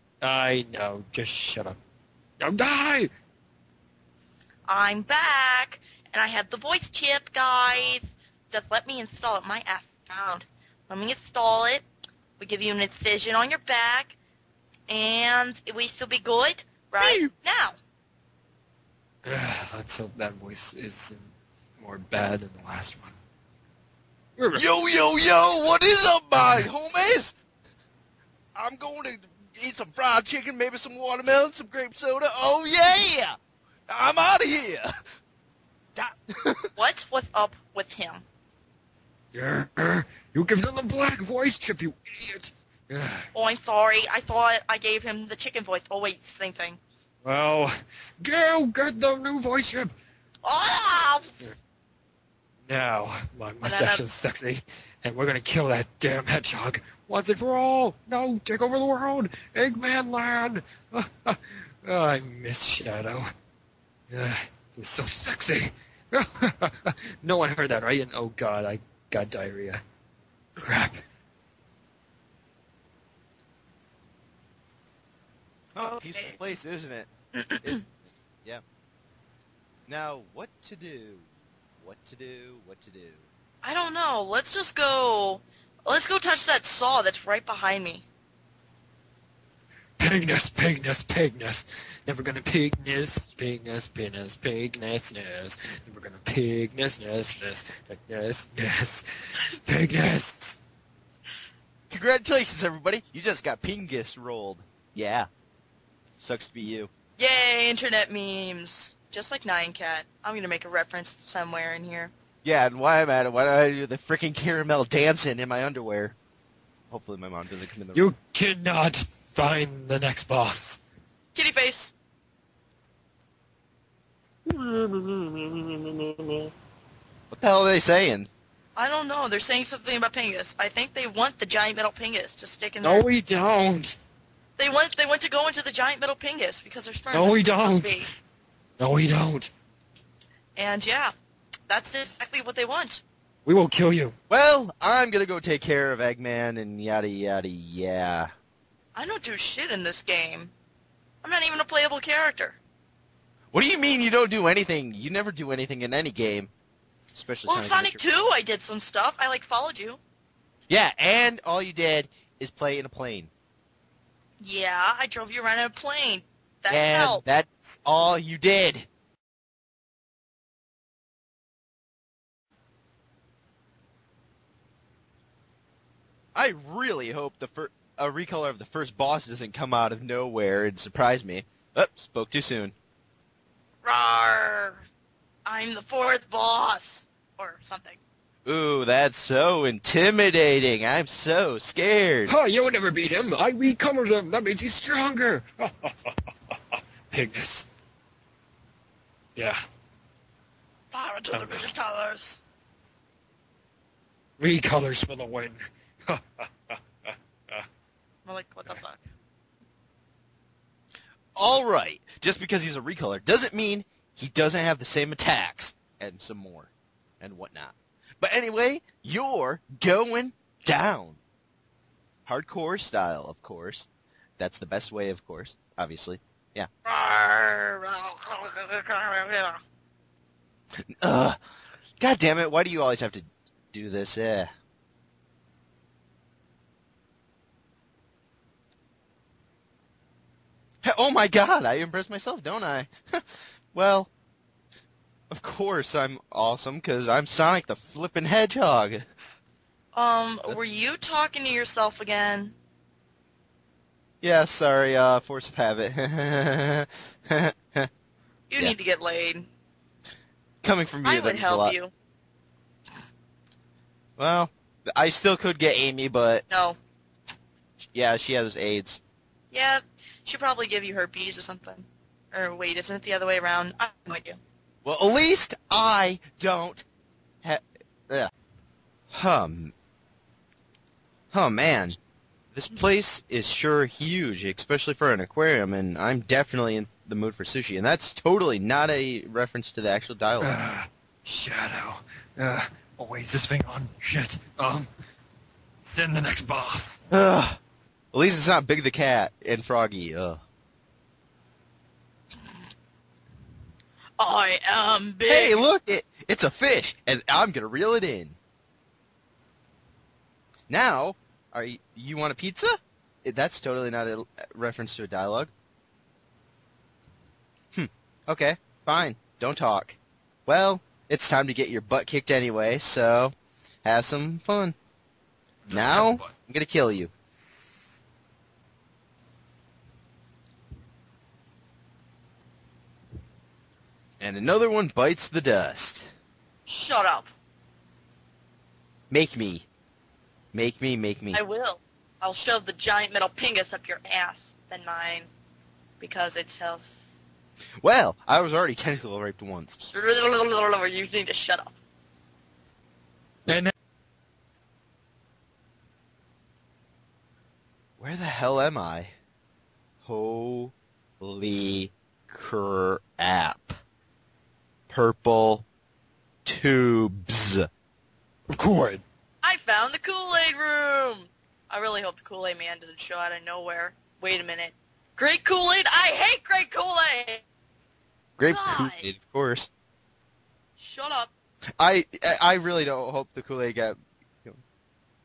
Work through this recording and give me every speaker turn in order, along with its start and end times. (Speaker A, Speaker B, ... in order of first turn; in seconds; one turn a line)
Speaker A: 0.2-1.8
Speaker A: 2.4-3.1
Speaker B: 4.7-11.8
Speaker B: 12.4-14.2
Speaker B: 14.9-17.8
Speaker C: 17.0-17.3
Speaker A: 19.2-23.2
Speaker A: 24.4-24.6
Speaker C: 24.5-27.4
Speaker A: 26.4-26.7
Speaker C: 28.5-33.4
Speaker C: 33.9-34.9
Speaker C: 35.9-36.7
Speaker B: 36.8-38.2
Speaker A: 39.3-43.3
Speaker B: 43.3-46.8
Speaker A: 47.2-49.9
Speaker B: 50.4-51.3
Speaker A: 52.6-63.3
Speaker B: 53.6-54.0
Speaker A: 64.1-69.8
Speaker A: 70.6-71.0
Speaker C: 75.7-77.1
Speaker B: 75.8-76.4
Speaker B: 77.3-77.8
Speaker C: 79.9-81.3
Speaker C: 81.8-83.2
Speaker B: 83.6-88.0
Speaker A: 90.0-100.6
Speaker C: 101.9-105.3
Speaker C: 106.2-106.9
Speaker B: 107.2-112.1
Speaker C: 112.4-116.2
Speaker C: 116.9-118.1
Speaker A: 117.9-120.8
Speaker B: 121.3-121.9
Speaker A: 124.5-126.5
Speaker C: 127.3-128.3
Speaker B: 128.8-133.1
Speaker A: 132.8-134.0
Speaker B: 134.6-138.1
Speaker A: 137.1-138.0
Speaker A: 138.8-139.5
Speaker B: 140.6-141.1
Speaker B: 141.7-143.0
Speaker A: 143.4-144.1
Speaker C: 144.3-148.3
Speaker B: 148.9-150.5
Speaker B: 151.2-152.6
Speaker C: 153.5-156.5
Speaker C: 157.1-158.0
Speaker B: 157.5-160.0
Speaker C: 160.7-163.3
Speaker B: 164.4-167.2
Speaker C: 166.7-168.9
Speaker C: 176.3-182.7
Speaker B: 183.8-184.8
Speaker B: 185.4-188.0
Speaker C: 188.4-192.3
Speaker A: 192.3-196.1
Speaker A: 197.1-197.7
Speaker B: 200.9-202.4
Speaker A: 201.3-201.7
Speaker A: 204.4-206.8
Speaker B: 208.2-209.1
Speaker C: 211.3-221.2
Speaker C: 222.2-223.9
Speaker C: 224.4-226.7
Speaker B: 226.8-229.6
Speaker C: 231.0-231.4
Speaker C: 232.0-234.5
Speaker C: 240.8-244.1
Speaker C: 245.3-249.1
Speaker B: 249.9-252.5
Speaker C: 254.2-257.9
Speaker B: 258.5-259.5
Speaker C: 260.6-261.8
Speaker B: 261.0-261.9
Speaker C: 264.2-266.4
Speaker B: 266.5-266.8
Speaker C: 267.9-269.0
Speaker B: 269.5-274.4
Speaker C: 274.8-276.8
Speaker C: 277.4-278.3
Speaker C: 279.1-279.7
Speaker C: 281.3-282.0
Speaker C: 282.5-290.6
Speaker A: 290.4-294.9
Speaker A: 295.8-297.0
Speaker C: 297.1-297.6
Speaker C: 298.1-300.4
Speaker B: 304.2-305.6
Speaker C: 305.3-308.4
Speaker C: 310.7-315.5
Speaker C: 317.7-323.3
Speaker C: 323.8-324.7
Speaker A: 325.6-326.3
Speaker C: 325.7-327.1
Speaker C: 334.2-336.1
Speaker B: 336.7-337.3
Speaker C: 339.1-339.6
Speaker C: 340.5-341.4
Speaker B: 341.3-345.3
Speaker B: 346.0-347.0
Speaker C: 347.8-349.8
Speaker B: 349.8-351.7
Speaker A: 353.5-353.7
Speaker C: 358.0-359.1
Speaker C: 360.0-363.8
Speaker C: 364.9-365.6
Speaker C: 366.4-367.6
Speaker A: 368.5-369.0
Speaker B: 369.4-377.4
Speaker C: 378.4-379.7
Speaker B: 378.4-379.1
Speaker B: 380.8-381.3
Speaker C: 381.8-384.6